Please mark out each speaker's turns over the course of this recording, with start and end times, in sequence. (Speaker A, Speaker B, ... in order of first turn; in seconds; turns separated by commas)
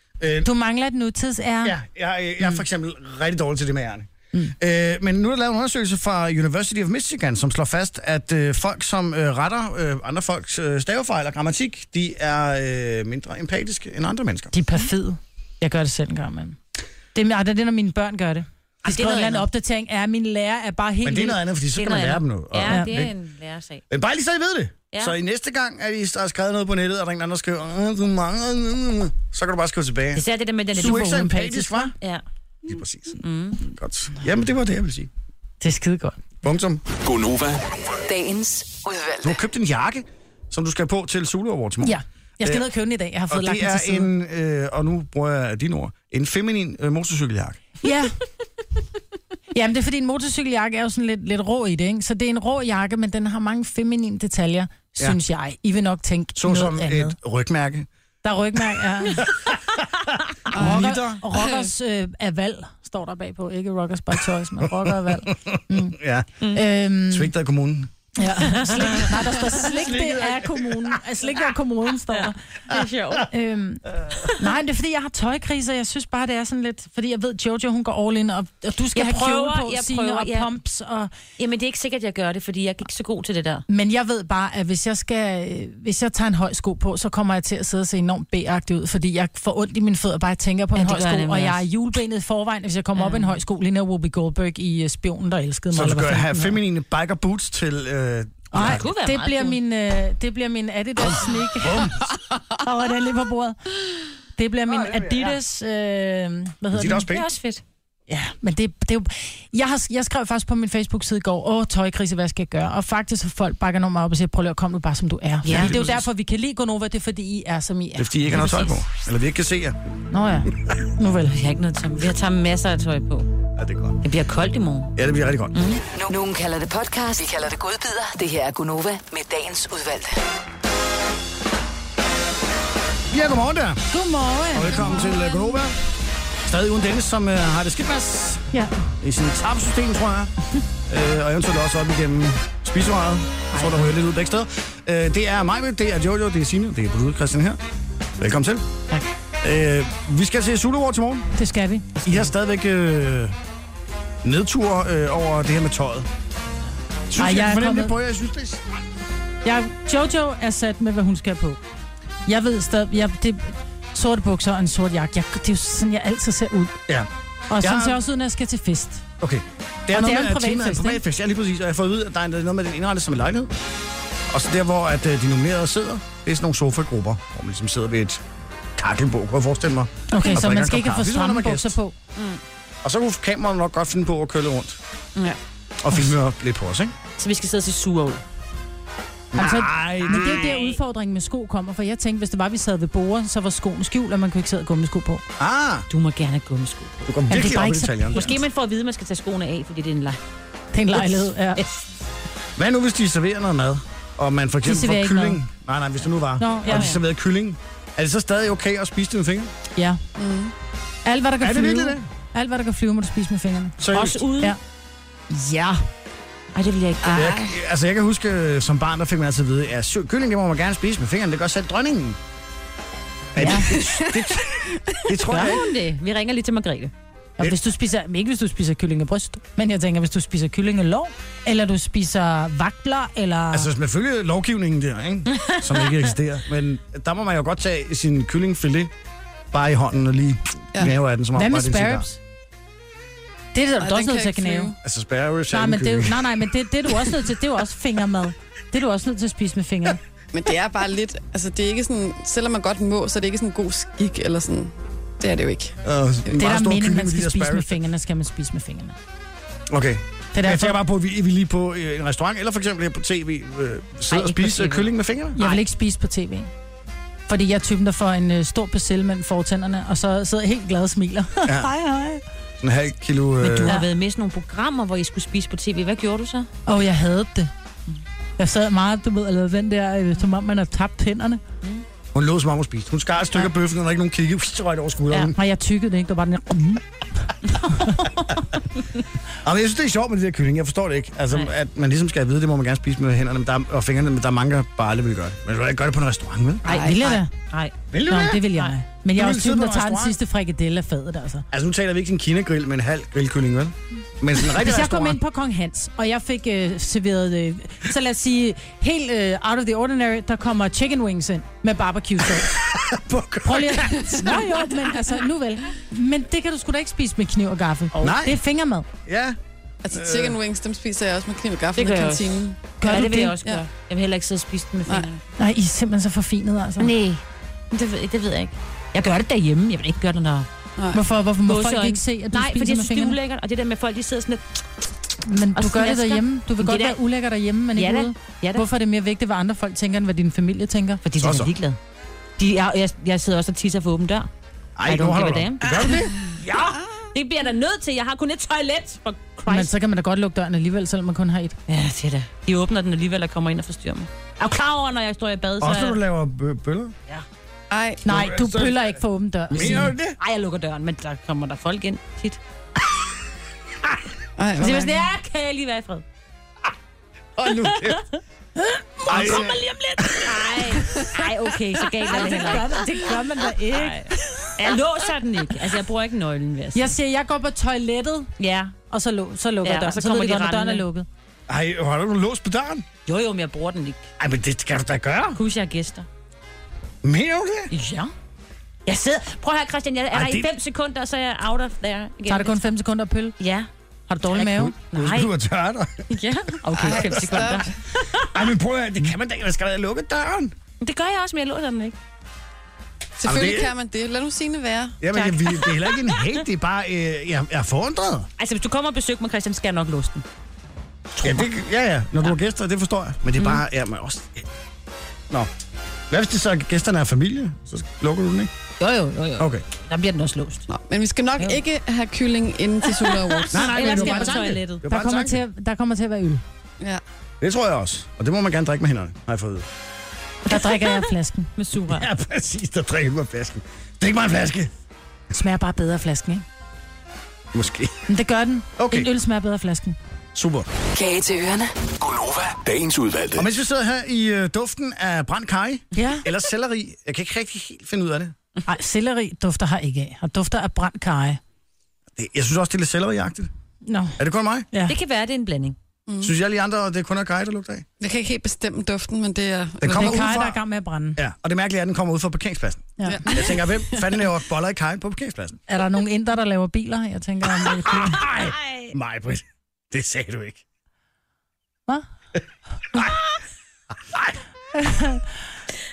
Speaker A: 0.2-0.5, Speaker B: 0.4-1.7, Speaker A: 1.6-14.5, Speaker B: 14.5-16.6, Speaker B: 17.1-21.4, Speaker C: 18.8-19.4, Speaker A: 21.0-23.1, Speaker C: 21.7-23.8, Speaker B: 22.7-22.9, Speaker A: 23.9-31.9, Speaker C: 30.1-31.2, Speaker B: 30.8-31.9, Speaker A: 32.6-35.1, Speaker C: 33.2-33.6, Speaker B: 35.6-36.3, Speaker A: 36.4-36.8, Speaker D: 37.0-37.6, Speaker E: 38.0-39.4, Speaker A: 39.2-42.7, Speaker B: 41.8-44.1, Speaker A: 43.3-47.6, Speaker B: 47.8-48.1, Speaker B: 49.5-57.1, Speaker A: 56.4-57.9, Speaker B: 58.2-59.3, Speaker A: 58.8-61.2, Speaker F: 60.5-61.7, Speaker B: 60.5-67.3, Speaker A: 64.6-66.4, Speaker A: 67.1-67.9, Speaker B: 68.2-72.4, Speaker C: 68.5-69.0, Speaker A: 68.8-71.0, Speaker C: 72.1-73.3, Speaker B: 73.3-81.1, Speaker C: 78.9-80.5, Speaker C: 81.4-83.6, Speaker B: 83.7-96.6, Speaker C: 90.8-91.6, Speaker C: 93.0-93.4, Speaker A: 95.7-98.8, Speaker B: 98.5-102.0, Speaker C: 98.5-99.6, Speaker A: 101.0-102.0, Speaker B: 102.6-103.6, Speaker B: 104.3-107.1, Speaker A: 104.7-105.4, Speaker A: 106.7-107.3, Speaker C: 107.1-107.6, Speaker B: 108.1-118.7, Speaker C: 115.4-115.9, Speaker A: 115.4-116.0, Speaker A: 118.0-119.8, Speaker C: 118.3-118.7, Speaker B: 120.1-121.4, Speaker C: 121.3-123.3, Speaker A: 123.5-124.0, Speaker C: 124.0-124.9, Speaker A: 125.0-125.5, Speaker C: 125.5-125.8, Speaker E: 125.9-130.2, Speaker A: 133.1-133.8, Speaker B: 133.9-135.2, Speaker A: 134.5-135.8, Speaker C: 134.9-135.2, Speaker A: 136.4-140.3, Speaker A: 140.9-147.6, Speaker A: 148.2-148.6, Speaker A: 149.4-151.3, Speaker B: 151.3-152.0, Speaker A: 152.0-153.3, Speaker A: 154.2-156.1, Speaker A: 157.1-158.6, Speaker B: 157.2-157.9, Speaker B: 159.4-161.6, Speaker B: 162.3-166.8, Speaker B: 167.5-169.0, Speaker A: 167.6-168.0, Speaker A: 169.2-173.5, Speaker B: 169.9-171.0, Speaker A: 174.3-178.2, Speaker A: 178.8-181.8, Speaker B: 180.1-181.9, Speaker C: 182.1-182.4, Speaker A: 182.8-184.8, Speaker A: 185.8-186.9, Speaker C: 187.2-188.2, Speaker A: 189.3-190.5, Speaker B: 189.3-195.2, Speaker C: 190.1-190.8, Speaker A: 195.4-195.9, Speaker C: 195.9-197.1, Speaker A: 197.1-198.4, Speaker B: 197.3-198.3, Speaker C: 198.1-200.2, Speaker B: 200.7-201.6, Speaker C: 200.9-201.8, Speaker A: 202.6-209.5, Speaker B: 204.6-205.4, Speaker B: 206.4-206.9, Speaker C: 206.7-207.0, Speaker B: 209.8-210.0, Speaker F: 210.2-210.5, Speaker B: 211.0-213.8, Speaker A: 211.4-212.1, Speaker A: 213.8-214.2, Speaker C: 213.9-214.6, Speaker B: 215.3-215.8, Speaker C: 216.5-217.5, Speaker A: 217.1-222.2, Speaker A: 223.3-225.6, Speaker B: 223.3-223.7, Speaker F: 223.7-224.8, Speaker C: 225.3-226.9, Speaker B: 227.4-233.7, Speaker A: 233.5-238.9, Speaker C: 235.3-235.8, Speaker A: 239.5-242.1, Speaker B: 241.3-242.2, Speaker B: 243.5-244.7, Speaker F: 243.8-244.8, Speaker A: 244.8-246.5, Speaker B: 245.5-250.0, Speaker F: 250.3-255.8, Speaker A: 255.8-257.8, Speaker B: 256.3-258.9, Speaker A: 259.7-265.4, Speaker B: 260.3-260.8, Speaker C: 264.1-265.6, Speaker B: 265.4-266.5, Speaker B: 267.3-272.2, Speaker A: 271.4-271.7, Speaker A: 272.6-273.8, Speaker C: 273.4-276.5, Speaker B: 276.6-277.5, Speaker B: 278.4-281.4, Speaker A: 282.1-285.4, Speaker B: 285.3-288.1, Speaker A: 289.4-296.6, Speaker C: 296.6-297.7, Speaker B: 296.7-297.3, Speaker F: 296.7-297.0, Speaker A: 297.9-298.5, Speaker B: 298.0-301.4, Speaker A: 299.1-300.2, Speaker A: 301.5-305.2, Speaker B: 304.4-312.6, Speaker A: 312.2-314.5, Speaker B: 313.4-318.9, Speaker A: 318.0-318.4, Speaker A: 319.1-319.4, Speaker F: 319.8-323.6, Speaker A: 319.9-320.4, Speaker C: 321.7-325.2, Speaker B: 322.8-323.3, Speaker B: 325.4-326.9, Speaker C: 326.8-330.5, Speaker B: 330.9-333.2, Speaker C: 331.4-334.4, Speaker B: 335.2-341.0, Speaker C: 335.6-337.0, Speaker C: 337.7-338.7, Speaker C: 341.0-341.8, Speaker A: 341.2-341.5, Speaker C: 342.4-344.3, Speaker A: 344.8-346.3, Speaker C: 344.9-349.7, Speaker B: 349.5-351.6, Speaker C: 351.7-356.0, Speaker A: 355.6-356.9, Speaker F: 357.7-358.0, Speaker B: 358.0-359.9, Speaker A: 358.0-360.2, Speaker C: 359.6-362.4, Speaker F: 364.4-365.0, Speaker C: 364.6-366.0, Speaker A: 367.4-368.0, Speaker C: 367.7-368.0, Speaker C: 369.0-376.9, Speaker A: 369.0-369.6, Speaker B: 369.1-369.6, Speaker B: 372.0-374.5, Speaker B: 376.7-378.3, Speaker C: 378.4-378.7, Speaker B: 378.9-381.1, Speaker C: 379.6-380.9, Speaker A: 381.5-382.9, Speaker C: 383.1-384.1, Speaker A: 384.2-385.4, Speaker C: 385.3-386.1, Speaker A: 387.0-387.7, Speaker C: 387.7-388.1, Speaker C: 388.9-392.6, Speaker A: 390.1-390.5, Speaker B: 392.2-393.3, Speaker C: 393.4-393.7, Speaker B: 394.1-394.7, Speaker C: 394.3-395.3, Speaker A: 394.4-396.1, Speaker C: 396.1-398.4, Speaker F: 396.7-397.8, Speaker A: 396.9-397.4, Speaker A: 398.1-400.5, Speaker C: 400.8-401.9, Speaker F: 403.2-405.0, Speaker A: 403.2-403.7, Speaker A: 405.0-408.3, Speaker C: 405.1-406.4, Speaker C: 408.4-410.2, Speaker C: 411.2-411.4, Speaker A: 411.2-414.5, Speaker C: 413.4-413.6, Speaker A: 416.1-418.5, Speaker C: 418.8-420.7, Speaker A: 419.4-419.6, Speaker F: 420.7-423.7, Speaker C: 422.9-424.9, Speaker A: 423.5-425.4, Speaker B: 423.7-426.4, Speaker A: 427.4-429.7, Speaker B: 430.4-431.5, Speaker C: 430.5-432.1, Speaker A: 431.9-434.7, Speaker B: 435.3-436.4, Speaker A: 437.5-438.0, Speaker B: 438.1-440.0, Speaker A: 438.8-439.1, Speaker A: 440.3-440.7, Speaker E: 440.9-441.8, Speaker D: 442.0-443.5, Speaker A: 443.4-448.3, Speaker B: 445.9-446.2, Speaker B: 448.7-451.4, Speaker A: 452.1-453.5, Speaker B: 453.9-454.2, Speaker A: 454.2-454.7, Speaker C: 454.9-455.8, Speaker F: 456.1-456.3, Speaker A: 456.2-457.9, Speaker F: 458.0-460.3, Speaker A: 459.8-460.6, Speaker B: 459.9-461.2, Speaker A: 461.1-465.6, Speaker B: 463.0-463.3, Speaker F: 463.1-464.1, Speaker B: 465.7-468.2, Speaker A: 467.6-470.6, Speaker C: 468.2-468.9, Speaker A: 474.1-474.4, Speaker B: 474.7-475.4